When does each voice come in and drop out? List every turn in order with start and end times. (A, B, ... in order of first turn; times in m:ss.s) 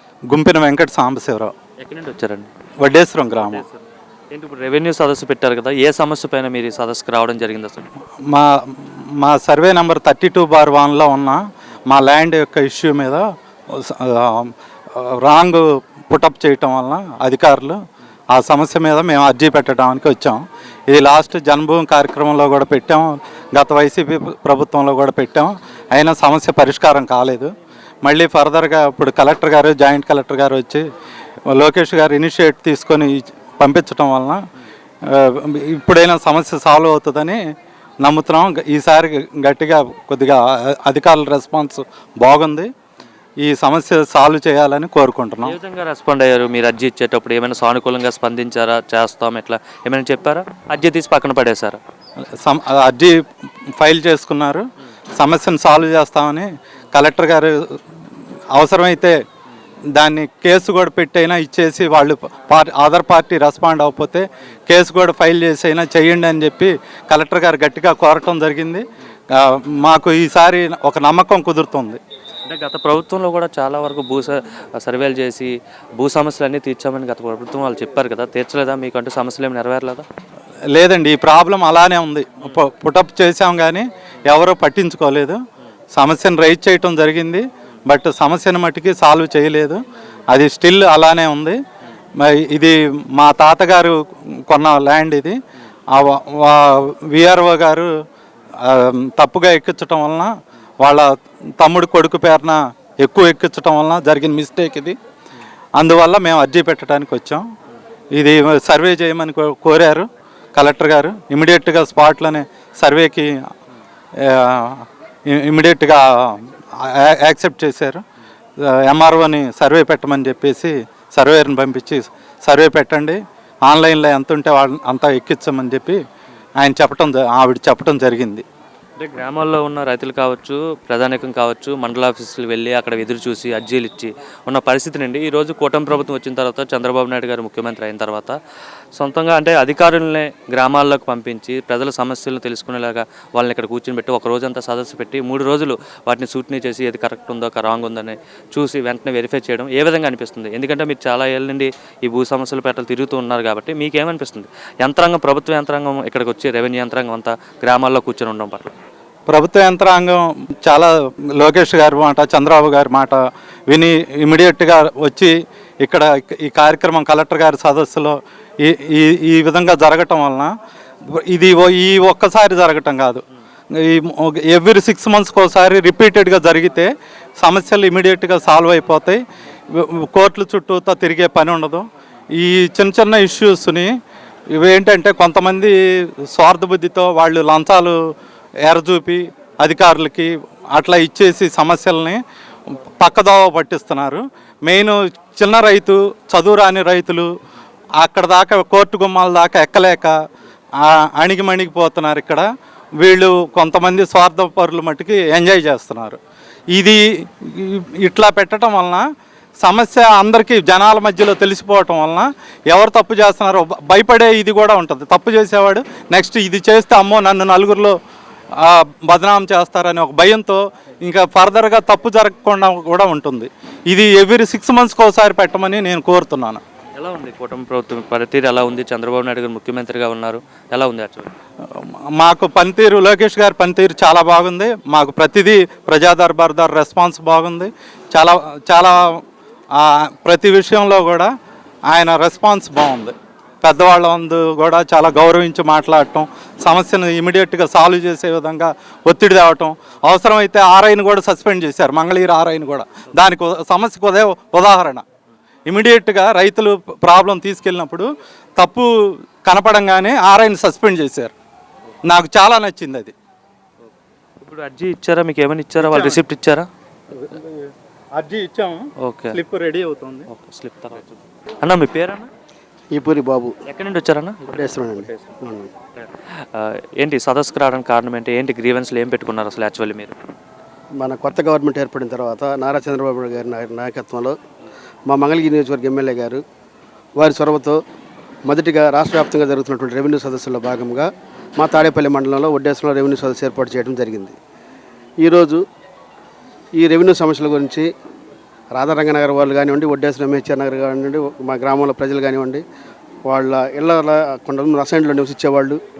0:00.3-0:01.5 A
0:01.8-0:02.5 B
0:02.8-0:03.6 A
0:03.4-0:07.9 B
0:08.3-0:17.8 A
0:18.3-0:30.8 A
0:31.5-0:34.4 A
0:35.0-0:37.4 A
0:38.0-0:42.7 A
0:43.4-0:45.5 A
0:45.4-0:51.8 B
0:52.4-0:53.2 A
0:53.8-0:54.6 A
0:55.2-0:57.8 A
0:58.5-0:59.2 A
0:59.9-1:12.0 A
1:12.5-1:20.0 B
1:20.7-1:25.4 A
1:25.9-1:31.6 A
1:32.2-1:33.9 A
1:34.5-1:35.3 A
1:35.9-1:37.9 A
1:38.6-1:45.0 A
1:45.8-1:47.4 A
1:48.1-1:53.3 A
1:54.2-1:58.0 A
1:58.6-2:06.0 A
2:06.6-2:08.4 A
2:09.0-2:18.3 B
2:19.0-2:38.7 B
2:39.3-2:50.5 A
2:51.1-3:03.9 A
3:04.5-3:08.0 A
3:08.6-3:17.3 A
3:18.0-3:20.1 A
3:20.8-3:22.4 A
3:23.0-3:26.2 A
3:26.7-3:29.0 A
3:29.6-3:38.0 A
3:38.6-3:46.6 A
3:47.0-3:51.3 B
3:51.7-3:59.2 A
3:59.7-4:01.3 A
4:01.9-4:15.0 A
4:15.6-4:18.9 A
4:19.4-4:21.3 A
4:22.1-4:23.1 A
4:24.4-4:26.6 B
4:25.8-4:26.2 A
4:27.1-4:30.2 A
4:29.0-4:29.4 B
4:30.3-4:32.3 B
4:32.9-4:33.6 C
4:33.7-4:35.2 B
4:34.5-4:35.7 C
4:36.0-4:40.1 B
4:41.0-4:44.4 C
4:45.1-4:46.4 C
4:47.2-4:47.8 C
4:48.5-4:54.4 C
4:55.2-4:55.6 C
4:56.8-4:57.9 C
4:58.7-5:02.6 C
5:03.3-5:05.8 C